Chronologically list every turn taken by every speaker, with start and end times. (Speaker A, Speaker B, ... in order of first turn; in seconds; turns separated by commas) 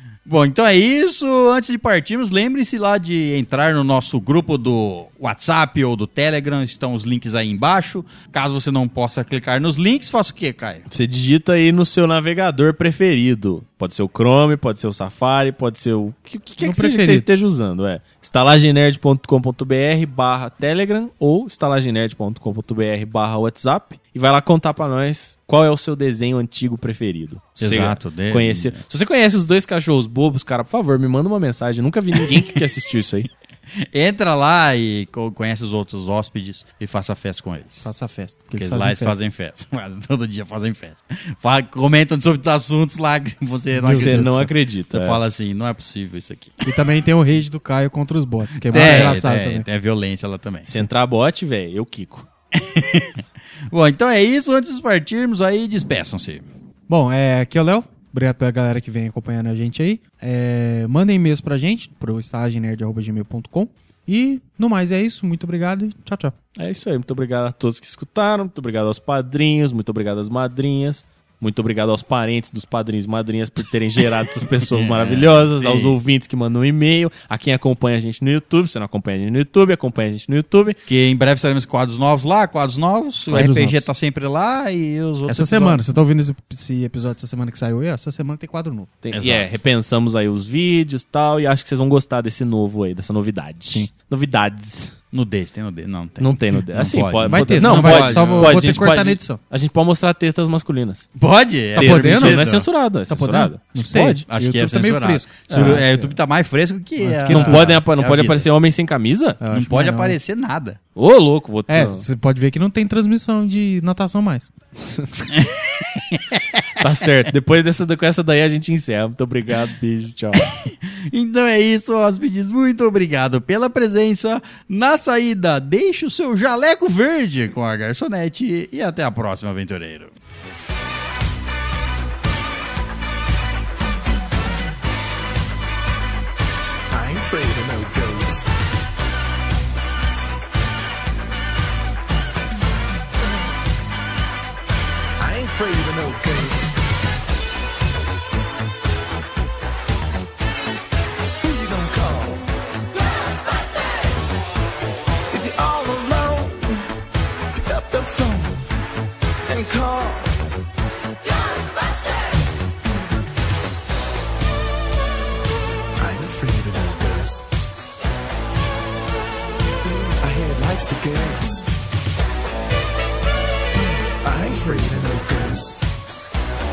Speaker A: 0.3-10.8, Speaker B: 10.9-33.3, Speaker C: 16.6-17.3, Speaker A: 27.6-28.8, Speaker A: 32.2-32.6, Speaker A: 33.7-37.9, Speaker C: 37.8-39.1, Speaker A: 38.6-44.4, Speaker C: 43.7-44.5, Speaker B: 43.9-45.2, Speaker A: 44.9-46.6, Speaker C: 46.6-49.7, Speaker A: 48.7-50.8, Speaker B: 48.7-49.1, Speaker B: 50.7-52.3, Speaker A: 52.5-56.5, Speaker C: 56.9-66.4, Speaker B: 66.6-80.8, Speaker A: 74.6-76.0, Speaker A: 80.9-85.8, Speaker C: 83.3-83.9, Speaker C: 85.3-88.9, Speaker B: 89.0-95.0, Speaker A: 89.1-89.5, Speaker A: 95.1-98.7, Speaker B: 96.2-101.1, Speaker C: 97.3-99.4, Speaker A: 101.2-102.7, Speaker B: 101.7-104.2, Speaker C: 101.8-102.5, Speaker C: 103.1-106.2, Speaker A: 104.3-108.5, Speaker B: 105.5-105.8, Speaker C: 107.0-107.8, Speaker B: 107.3-109.4, Speaker C: 109.4-110.2, Speaker A: 109.5-110.8, Speaker B: 111.0-112.0, Speaker C: 111.7-114.5, Speaker A: 115.3-117.0, Speaker B: 116.8-120.5, Speaker A: 120.3-130.1, Speaker D: 136.9-138.5, Speaker D: 145.2-146.8, Speaker D: 151.4-152.5, Speaker D: 155.3-156.9, Speaker D: 157.5-158.7, Speaker D: 159.5-160.4, Speaker D: 166.0-167.5, Speaker D: 170.2-171.7, Speaker D: 174.2-175.8